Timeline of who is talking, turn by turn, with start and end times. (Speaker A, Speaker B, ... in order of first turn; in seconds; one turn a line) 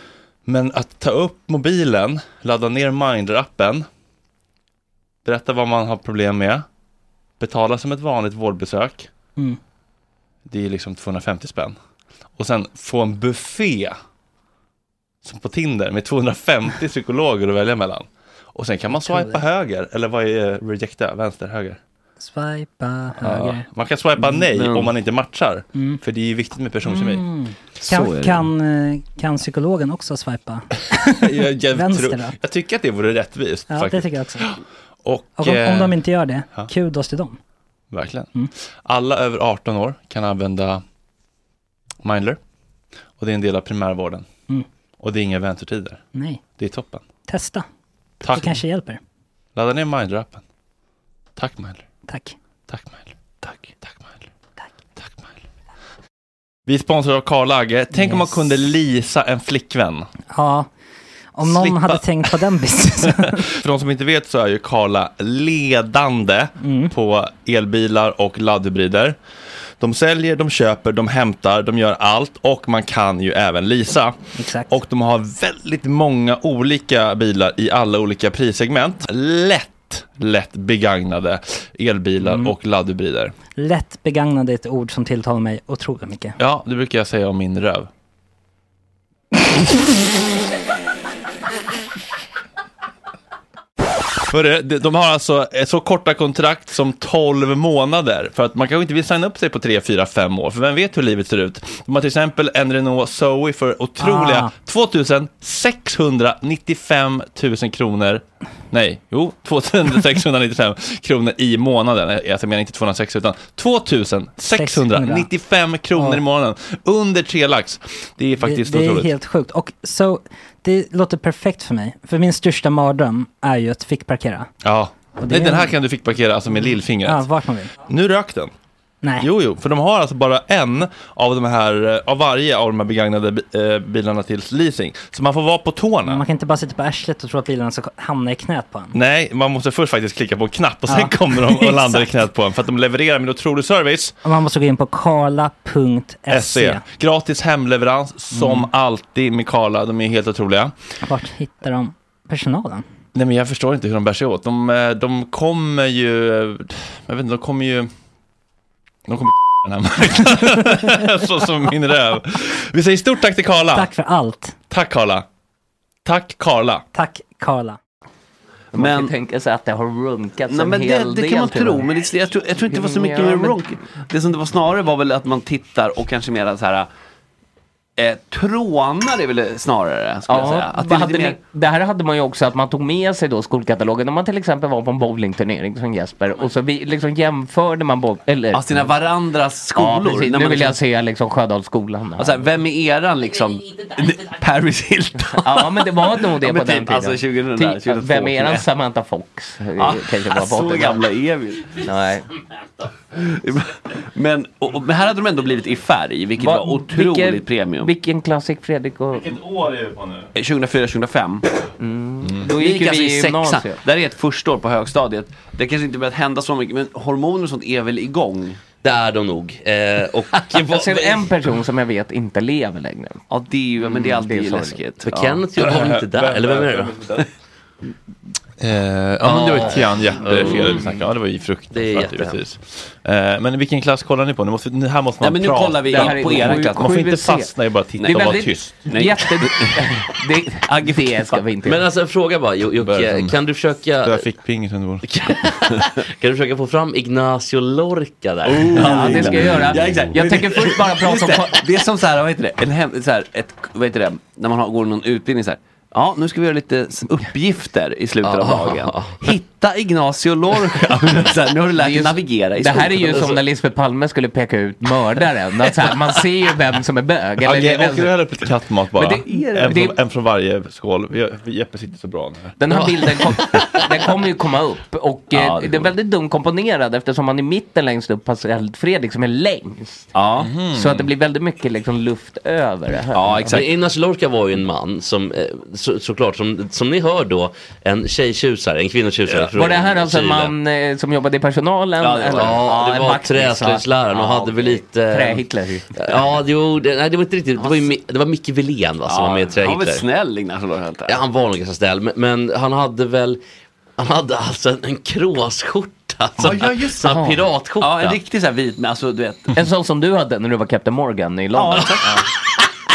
Speaker A: 0.4-3.9
Speaker A: 5.2-6.7
Speaker A: 7.4-9.1
Speaker A: 10.4-11.8
Speaker A: 12.3-14.0
Speaker A: 15.2-21.8
Speaker B: 18.9-19.4
Speaker B: 22.2-23.7
Speaker A: 23.2-27.2
Speaker C: 24.5-24.9
Speaker B: 25.7-26.0
Speaker B: 26.8-32.4
Speaker C: 27.8-28.4
Speaker A: 31.2-35.9
Speaker B: 33.7-34.6
Speaker B: 35.4-37.4
Speaker A: 37.9-40.8
Speaker A: 42.0-42.4
Speaker A: 43.2-44.3
Speaker A: 45.0-46.0
Speaker B: 46.1-46.4
Speaker A: 46.6-47.0
Speaker B: 47.3-47.7
Speaker A: 48.2-48.6
Speaker B: 48.2-49.0
Speaker A: 49.5-50.4
Speaker A: 51.4-51.9
Speaker B: 52.1-52.4
Speaker A: 52.7-53.1
Speaker C: 53.4-53.7
Speaker A: 53.8-54.3
Speaker A: 55.0-55.4
Speaker A: 56.6-60.1
Speaker B: 57.9-58.4
Speaker B: 60.3-63.4
Speaker A: 61.4-62.4
Speaker A: 63.6-69.2
Speaker B: 66.6-66.9
Speaker A: 69.8-83.3
Speaker B: 74.4-74.7
Speaker B: 82.2-82.5
Speaker B: 83.5-86.3
Speaker A: 86.4-87.9
Speaker A: 94.2-119.1
Speaker B: 104.0-104.5
Speaker B: 114.5-115.3
Speaker B: 115.9-116.2
Speaker B: 118.4-124.6
Speaker A: 124.6-127.3
Speaker B: 125.1-125.8
Speaker B: 126.5-127.7
Speaker A: 127.8-128.5
Speaker B: 129.0-129.3
Speaker A: 129.2-136.2
Speaker B: 136.0-138.9
Speaker A: 138.9-144.2
Speaker B: 140.9-142.2
Speaker B: 144.2-146.8
Speaker A: 146.3-150.8
Speaker B: 148.3-148.7
Speaker B: 151.0-152.8
Speaker A: 153.1-157.9
Speaker A: 159.1-163.9
Speaker B: 163.7-164.5
Speaker A: 164.7-165.2
Speaker A: 166.0-166.8
Speaker B: 166.9-167.8
Speaker C: 168.7-169.1
Speaker D: 168.7-171.9
Speaker C: 170.5-176.9
Speaker D: 172.6-173.6
Speaker C: 178.0-181.4
Speaker D: 180.3-188.9
Speaker C: 188.5-190.8
Speaker D: 189.7-192.4
Speaker C: 192.2-198.7
Speaker D: 195.4-201.1
Speaker C: 199.8-201.8
Speaker D: 201.8-202.3
Speaker C: 203.1-207.9
Speaker D: 206.4-209.3
Speaker A: 209.1-210.3
Speaker C: 210.3-211.4
Speaker D: 211.8-213.8
Speaker A: 212.2-212.5
Speaker C: 212.5-218.6
Speaker E: 218.8-221.3
Speaker D: 220.7-223.2
Speaker C: 223.3-225.4
Speaker D: 223.8-224.8
Speaker E: 225.0-227.0
Speaker A: 225.6-227.2
Speaker A: 228.6-238.7
Speaker E: 229.2-230.9
Speaker E: 231.7-232.4
Speaker C: 235.2-236.9
Speaker D: 235.9-237.5
Speaker C: 238.0-240.0
Speaker D: 238.1-241.8
Speaker C: 240.7-241.4
Speaker E: 241.6-244.3
Speaker A: 242.8-245.1
Speaker E: 245.2-249.3
Speaker C: 245.2-245.8
Speaker C: 248.5-263.4
Speaker D: 248.7-251.6
Speaker A: 249.0-250.1
Speaker E: 258.2-259.2
Speaker D: 261.7-268.2
Speaker A: 267.4-273.6
Speaker D: 269.0-269.9
Speaker C: 269.1-269.8
Speaker D: 272.6-283.6
Speaker C: 275.3-275.9
Speaker C: 280.1-280.6
Speaker A: 280.4-281.1
Speaker C: 283.1-283.6
Speaker E: 283.5-290.5
Speaker D: 289.5-293.8
Speaker C: 292.0-292.7
Speaker E: 292.3-295.4
Speaker C: 294.2-294.7
Speaker D: 295.1-295.9
Speaker E: 295.9-300.0
Speaker C: 299.1-301.2
Speaker E: 301.1-303.4
Speaker E: 304.0-308.2
Speaker A: 306.4-306.8
Speaker D: 307.0-307.4
Speaker C: 307.8-309.5
Speaker D: 309.6-312.2
Speaker C: 311.5-312.2